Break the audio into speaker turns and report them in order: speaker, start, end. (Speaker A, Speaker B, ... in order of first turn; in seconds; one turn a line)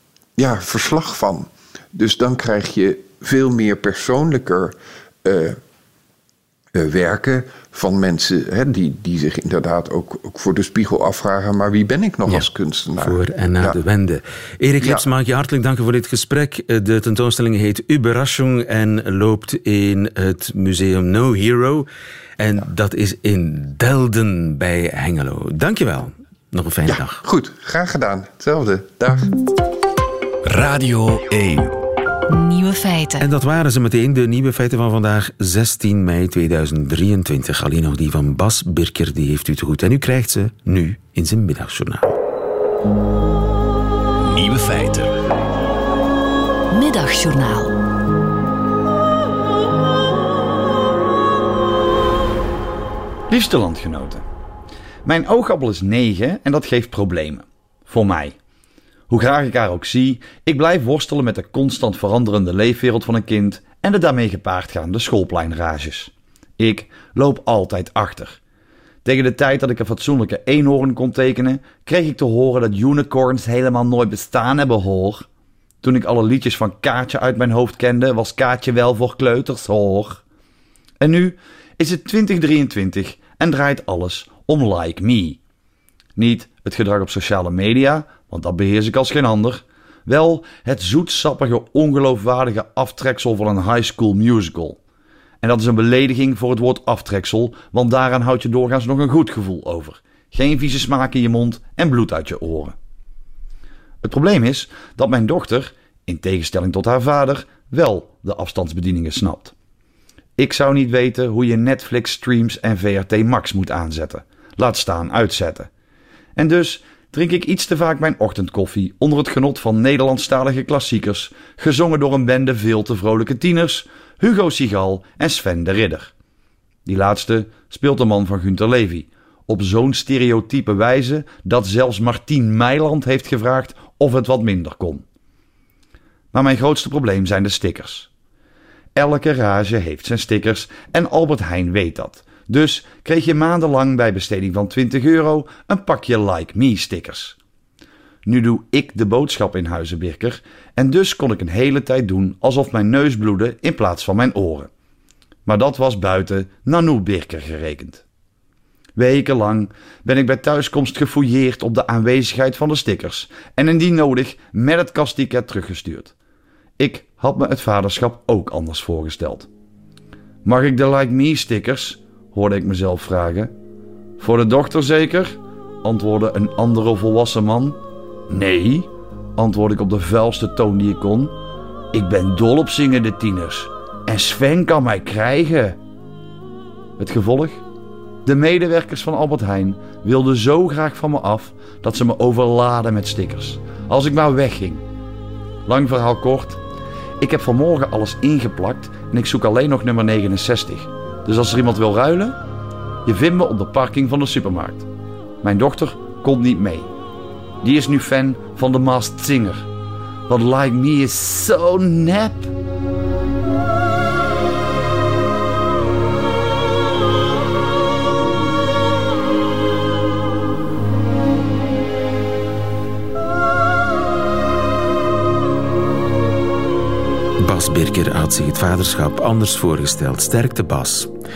Speaker A: 0.4-5.6
Speaker A: 6.8-13.8
Speaker B: 13.0-21.9
Speaker A: 14.8-15.1
Speaker B: 22.4-27.2
Speaker A: 26.9-29.3
Speaker C: 30.5-31.7
Speaker D: 32.3-33.3
Speaker B: 33.2-42.2
Speaker C: 44.2-45.2
Speaker D: 46.7-47.8
Speaker E: 53.3-54.2
Speaker E: 55.0-58.4
Speaker E: 59.1-68.4
Speaker E: 69.0-75.3
Speaker E: 75.8-80.2
Speaker E: 81.0-85.4
Speaker E: 86.2-94.8
Speaker E: 95.4-102.8
Speaker E: 104.0-109.5
Speaker E: 110.4-115.7
Speaker E: 116.4-126.1
Speaker E: 126.8-135.1
Speaker E: 136.3-138.1
Speaker E: 138.9-147.4
Speaker E: 148.2-154.7
Speaker E: 155.5-158.0
Speaker E: 159.0-166.1
Speaker E: 166.8-169.5
Speaker E: 170.4-173.5
Speaker E: 174.2-181.4
Speaker E: 181.9-185.8
Speaker E: 187.0-187.6
Speaker E: 188.2-194.8
Speaker E: 195.7-196.6
Speaker E: 197.2-202.4
Speaker E: 203.1-204.8
Speaker E: 205.4-206.9
Speaker E: 207.6-209.7
Speaker E: 210.3-212.5
Speaker B: 227.4-231.1